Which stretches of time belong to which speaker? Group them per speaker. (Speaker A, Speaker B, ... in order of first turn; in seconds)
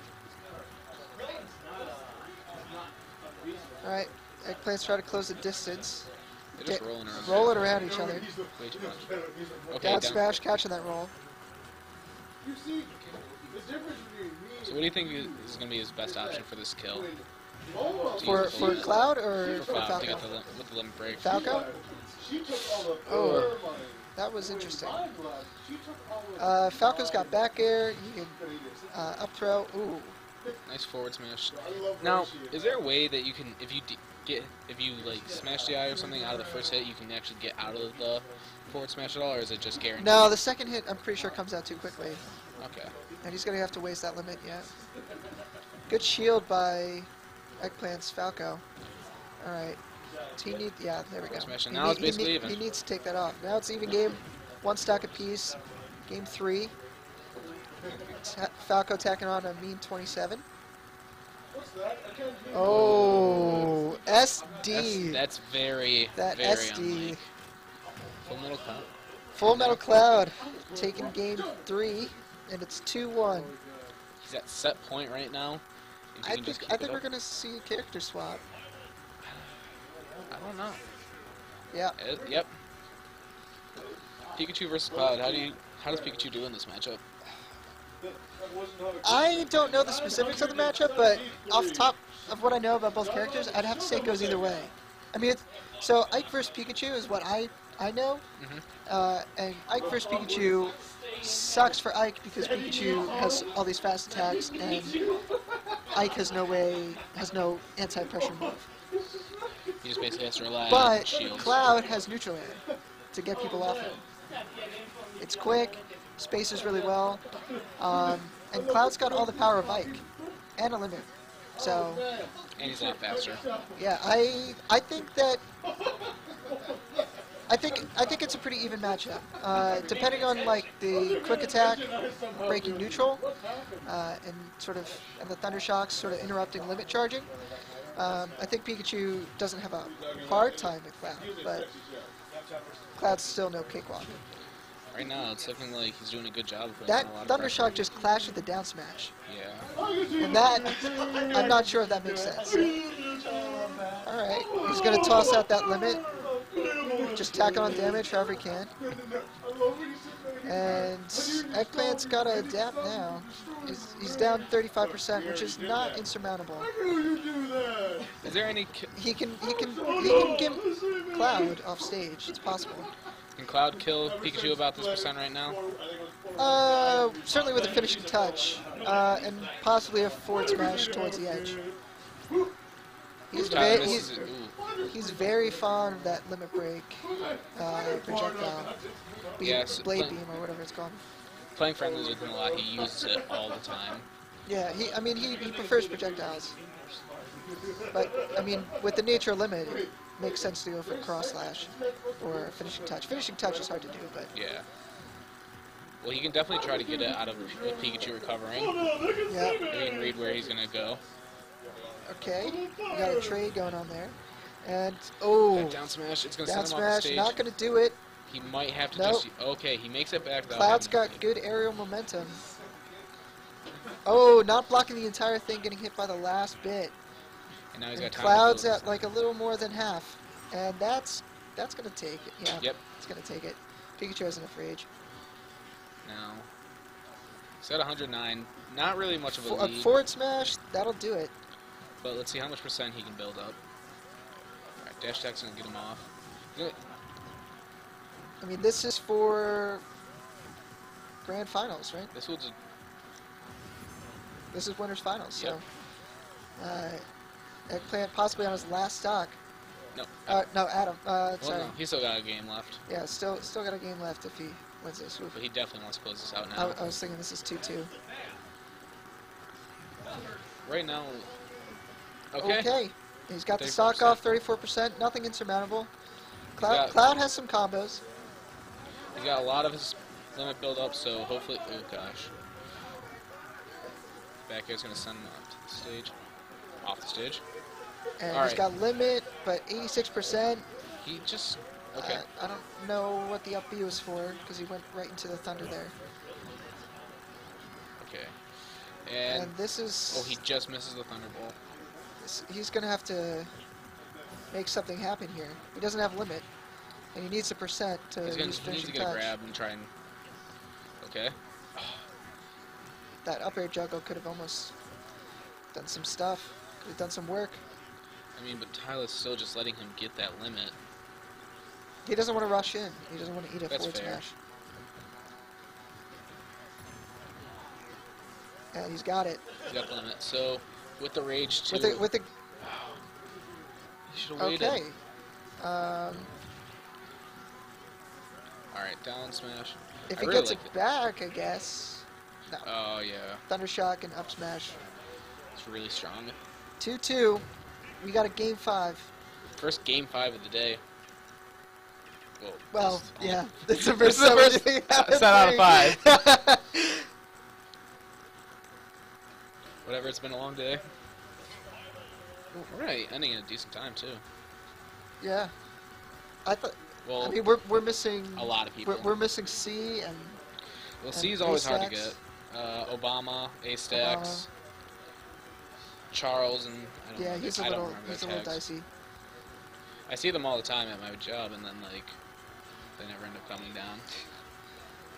Speaker A: 3.8-6.1, 6.6-8.3, 9.8-11.1, 18.2-20.3, 21.2-21.7, 23.1-23.6, 24.2-25.1, 26.4-28.4, 28.9-30.2, 40.0-42.2, 43.2-44.7, 45.9-47.1, 47.6-48.6, 49.4-49.8, 50.4-55.6, 56.1-56.7, 58.2-60.4, 62.5-65.2, 66.2-67.2, 69.3-73.5, 76.2-78.4, 89.0-98.2, 98.9-105.0, 105.9-108.6, 110.7-112.6, 113.1-114.0, 115.2-117.2, 117.8-120.0, 120.6-122.1, 123.8-125.4, 127.5-133.2, 133.8-137.3, 137.9-141.7, 143.0-144.1, 146.8-149.1, 150.2-152.7, 154.1-156.0, 157.1-158.7, 160.4-166.7, 168.9-172.9, 176.4-181.6, 183.3-184.2, 184.9-187.0, 187.6-188.8, 189.4-191.0, 194.5-196.5, 197.9-204.3, 209.3-209.7, 212.1-215.9, 216.4-218.0, 218.9-219.3, 220.5-222.4, 224.1-226.9, 228.0-234.9, 239.3-241.3, 248.4-249.8, 251.2-252.1, 254.5-255.6, 256.6-257.0, 257.7-259.4, 260.3-261.7, 262.9-265.4, 266.6-267.9, 272.4-275.9, 276.6-278.0, 288.2-290.6, 291.9-295.9, 299.3-300.4, 302.2-303.5, 304.5-306.5, 307.1-309.3, 313.2-314.7, 315.7-317.6, 322.1-324.3, 328.7-329.4, 331.7-332.3, 334.4-335.0, 335.6-336.3, 340.1-342.7, 343.5-344.8, 346.8-347.4, 348.0-349.1, 352.7-357.0, 365.2-365.5, 366.4-370.4, 371.1-372.1, 373.9-374.5, 377.2-378.9
Speaker B: 6.6-7.9, 8.6-9.1, 9.7-10.3, 14.6-17.1, 18.2-21.5, 23.1-23.6, 30.7-40.4, 42.6-42.9, 51.2-52.6, 62.6-63.7, 64.7-67.2, 68.2-68.9, 69.4-69.8, 74.2-75.6, 76.2-77.0, 80.3-80.8, 82.0-82.5, 84.3-87.0, 98.4-98.6, 109.8-111.6, 122.6-123.4, 144.9-147.9, 149.3-149.7, 168.2-168.9, 173.4-175.6, 183.3-184.6, 189.4-190.2, 191.6-194.1, 204.3-204.7, 206.0-208.8, 209.7-211.0, 215.5-217.4, 218.3-221.2, 227.7-229.0, 236.1-236.5, 237.6-239.9, 242.0-243.6, 244.8-246.8, 252.2-252.6, 259.9-260.4, 261.4-262.8, 265.3-266.9, 270.6-271.3, 272.3-272.7, 273.6-274.4, 276.6-277.0, 279.2-282.3, 284.5-286.1, 286.8-287.4, 288.3-288.7, 291.0-292.2, 298.0-298.4, 299.1-299.6, 300.1-301.6, 308.2-309.9, 311.0-312.0, 318.4-320.8, 323.7-324.2, 329.7-332.1, 332.6-333.0, 334.1-334.8, 338.7-340.7, 342.6-343.4, 345.6-346.4, 349.6-350.8, 352.4-356.1, 359.9-360.8, 362.5-364.2, 367.1-367.4, 368.4-369.1, 371.0-374.5, 376.1-378.6, 380.1-382.1, 383.0-384.1
Speaker C: 12.5-13.0, 13.5-15.2, 22.2-24.0, 150.0-150.7, 158.9-160.8, 162.6-163.6, 166.8-168.0